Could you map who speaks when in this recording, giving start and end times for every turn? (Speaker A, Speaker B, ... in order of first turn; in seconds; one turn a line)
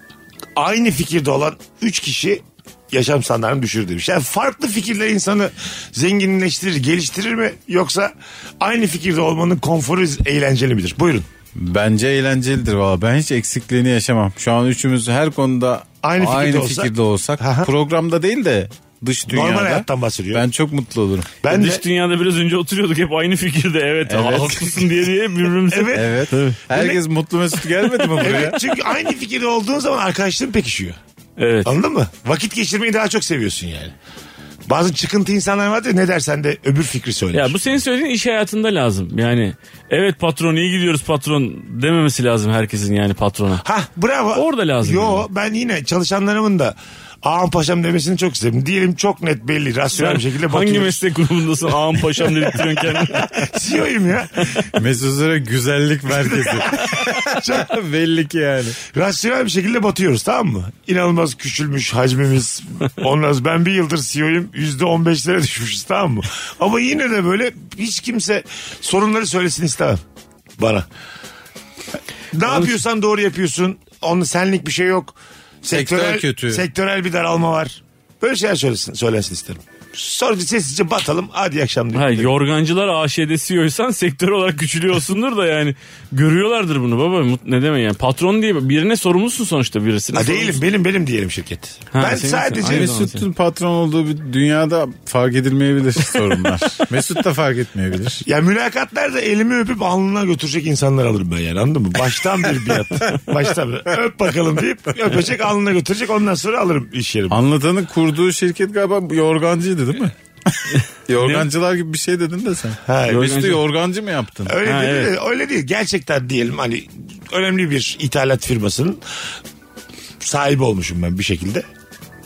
Speaker A: 0.6-11.2
Speaker B: 11.5-21.3
Speaker A: 16.0-17.7
Speaker A: 19.3-20.4
Speaker A: 21.4-21.8
Speaker C: 21.5-26.6
Speaker B: 24.1-24.9
Speaker A: 25.7-27.0
Speaker B: 25.9-28.6
Speaker A: 28.2-31.0
Speaker C: 31.4-31.7
Speaker A: 31.6-33.9
Speaker A: 34.7-37.5
Speaker C: 37.3-43.6
Speaker A: 43.6-51.0
Speaker C: 44.3-45.2
Speaker C: 50.0-53.4
Speaker A: 51.9-54.7
Speaker B: 54.7-58.8
Speaker A: 56.2-57.7
Speaker A: 58.9-70.0
Speaker A: 70.6-70.8
Speaker A: 72.3-82.3
Speaker B: 75.6-76.6
Speaker C: 81.9-90.6
Speaker A: 90.1-93.0
Speaker C: 91.9-93.2
Speaker B: 92.6-98.2
Speaker A: 98.2-107.4
Speaker B: 107.3-114.6
Speaker C: 110.7-111.5
Speaker A: 112.8-113.3
Speaker C: 113.1-113.6
Speaker A: 114.5-119.0
Speaker C: 114.6-115.1
Speaker A: 120.2-121.7